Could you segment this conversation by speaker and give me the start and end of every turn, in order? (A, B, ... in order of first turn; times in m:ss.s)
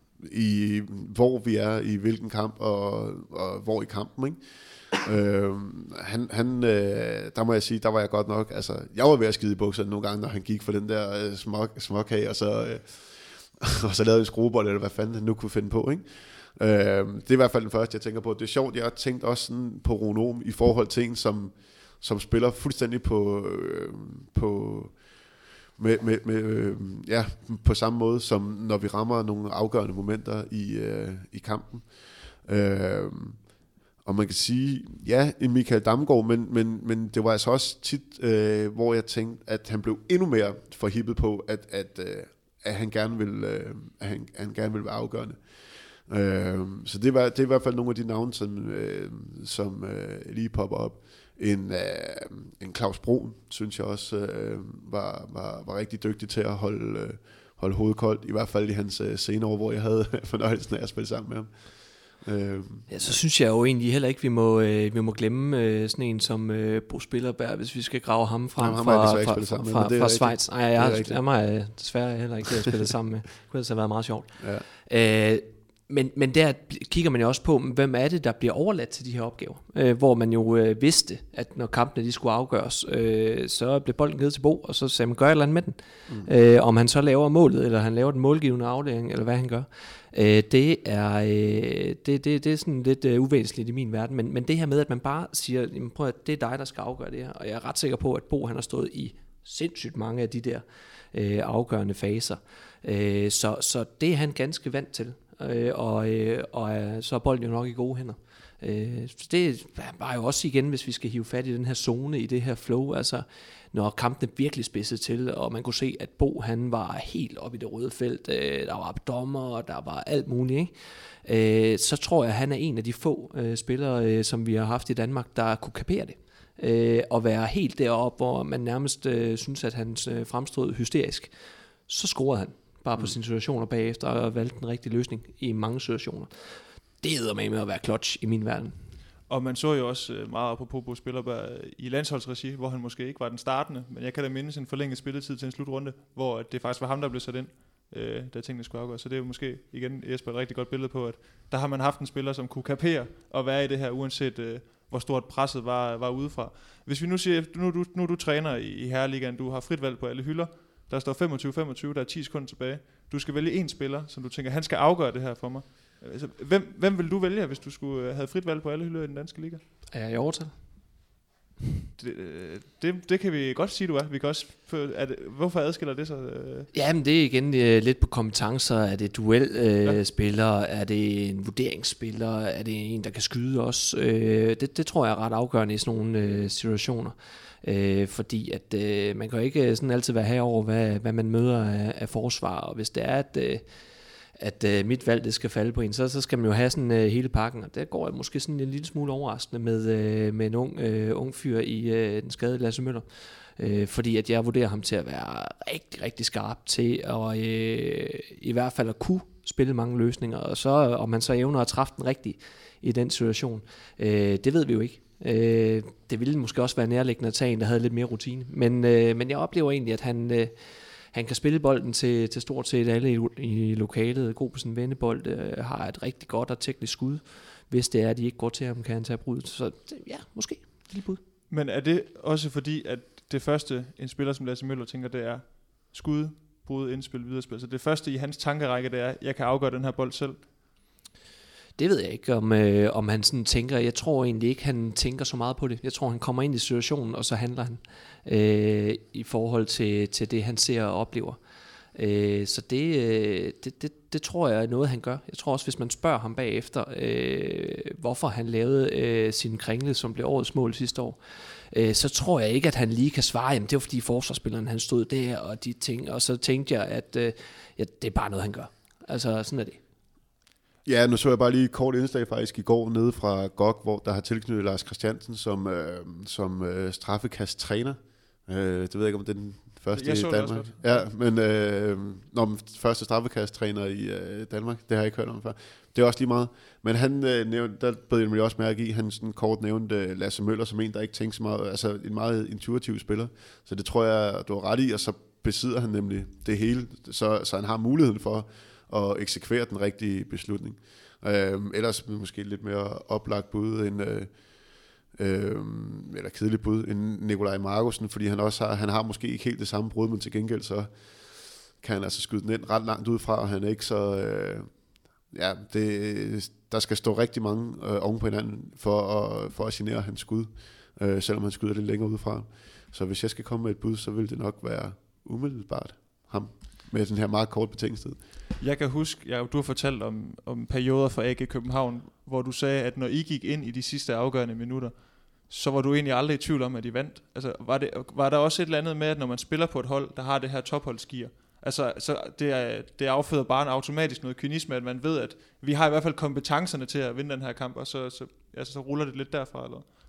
0:00.2-0:33.5 A
0:34.0-1:03.2 A
1:02.9-2:11.3 B
1:08.6-1:11.2 A
1:14.4-1:14.6 A
2:11.8-2:18.8 B
2:19.3-2:49.6 C
2:49.9-2:51.0 B
2:52.0-2:56.7 C
2:56.7-3:51.2 B
3:51.5-4:00.5 C
4:01.8-4:11.4 B
4:11.9-4:29.8 B
4:30.8-5:04.4 A
4:39.9-4:41.1 C
5:05.1-5:14.7 A
5:15.3-5:28.2 A
5:28.6-5:49.9 C